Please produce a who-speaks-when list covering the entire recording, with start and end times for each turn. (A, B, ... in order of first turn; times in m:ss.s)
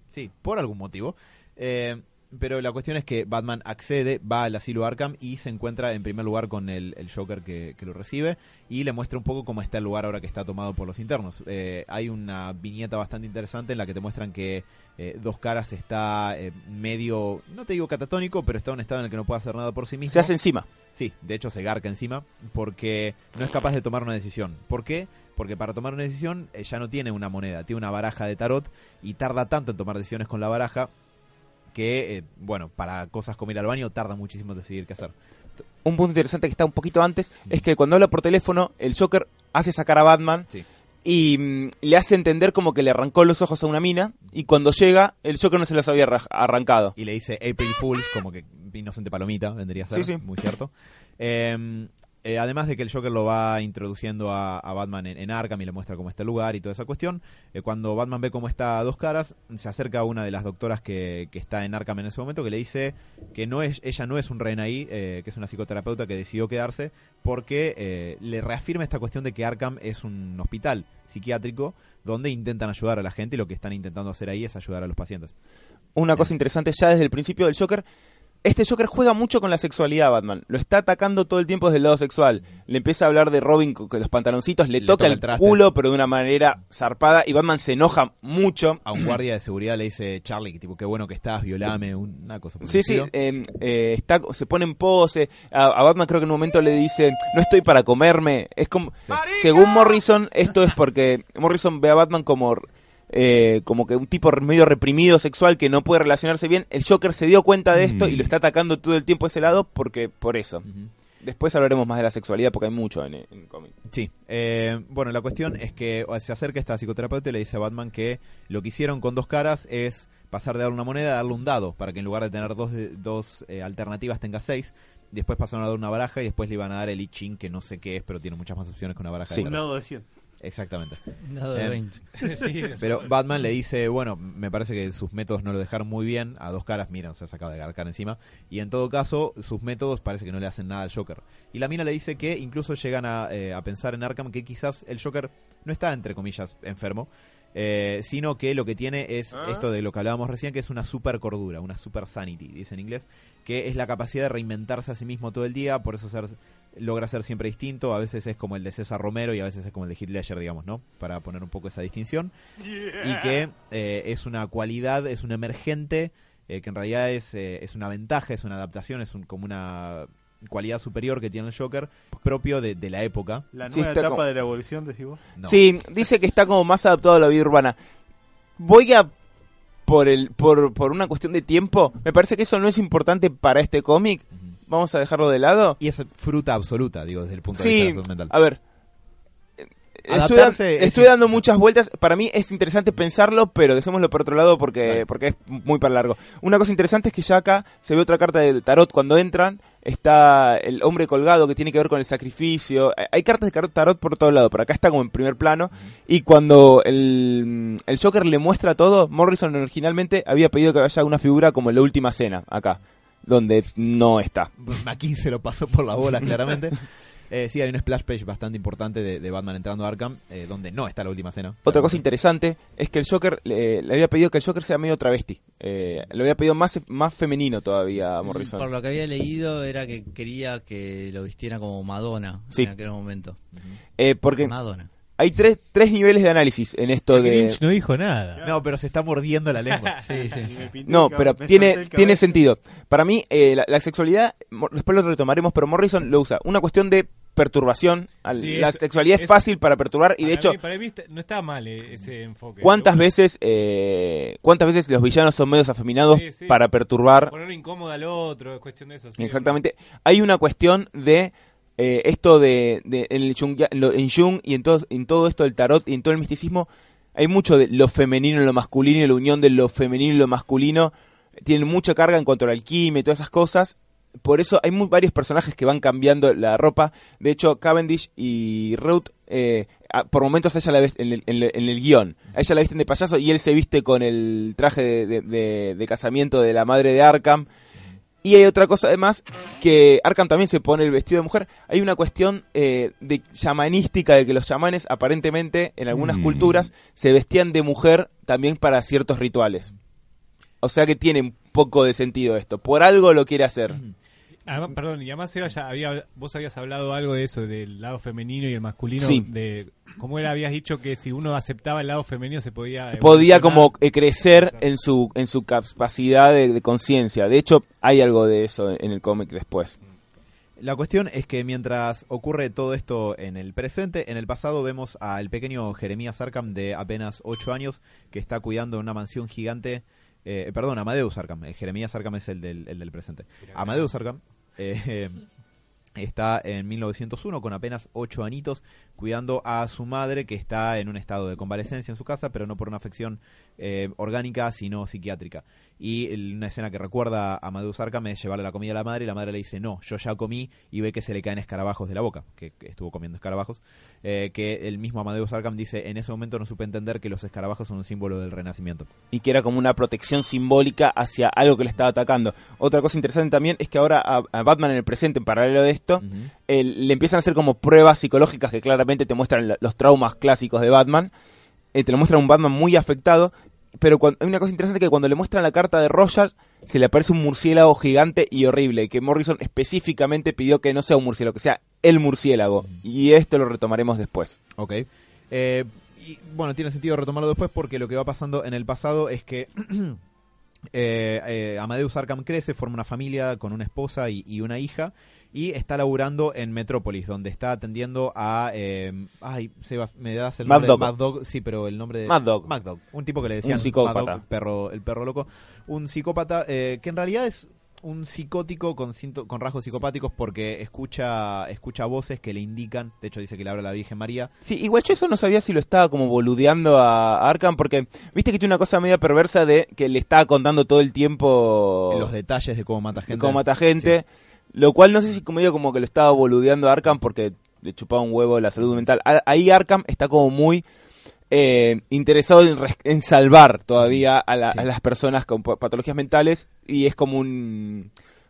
0:00.1-0:20.3 A
0:20.1-0:20.6 B
0:20.9-0:30.9 A
0:31.7-0:35.1 A
0:35.8-0:40.5 B
0:41.0-0:47.0 B
0:47.0-1:15.3 A
0:49.9-0:50.2 B
1:16.0-1:17.8 B
1:18.4-1:29.1 B
1:24.8-1:25.6 A
1:28.9-1:33.1 A
1:32.6-1:50.6 B
1:50.6-1:50.9 A
1:51.2-1:53.7 B
1:53.9-2:09.7 A
2:09.3-2:10.0 C
2:10.4-2:11.0 A
2:11.2-2:12.3 D
2:11.6-2:42.3 A
2:12.2-2:13.1 E
2:42.9-2:53.4 A
2:53.5-2:55.2 C
2:53.7-2:54.2 B
2:55.5-2:57.8 B
2:58.6-2:59.1 B
2:59.9-3:05.8 B
3:05.8-3:08.3 A
3:07.6-3:08.6 B
3:10.0-3:34.5 B
3:10.1-3:11.4 A
3:34.6-3:42.0 A
3:41.7-3:48.7 B
3:48.2-3:53.4 D
3:54.0-3:54.5 B
3:54.4-3:54.9 D
3:55.2-3:57.6 B
3:57.1-3:58.4 E
3:58.4-3:59.9 A
4:00.0-4:00.5 D
4:00.1-4:02.4 C
4:00.9-4:10.6 B
4:08.4-4:09.4 E
4:10.2-4:13.1 E
4:12.6-4:17.3 B
4:16.1-4:19.6 E
4:19.2-4:47.4 B
4:48.2-4:59.7 B
5:00.6-5:03.8 B
5:04.5-5:13.7 E
5:09.0-5:09.3 B
5:12.9-5:19.8 B
5:20.6-5:35.2 A
5:36.0-5:58.9 A
5:59.1-6:11.1 B
6:06.0-6:06.3 A
6:11.7-6:24.4 B
6:24.6-6:30.0 A
6:30.7-6:54.3 A
6:40.5-6:40.9 B
6:42.1-6:42.5 B
6:43.4-6:44.2 B
6:54.4-7:02.1 B
7:01.9-7:04.0 A
7:03.1-7:10.6 B
7:11.3-7:17.9 B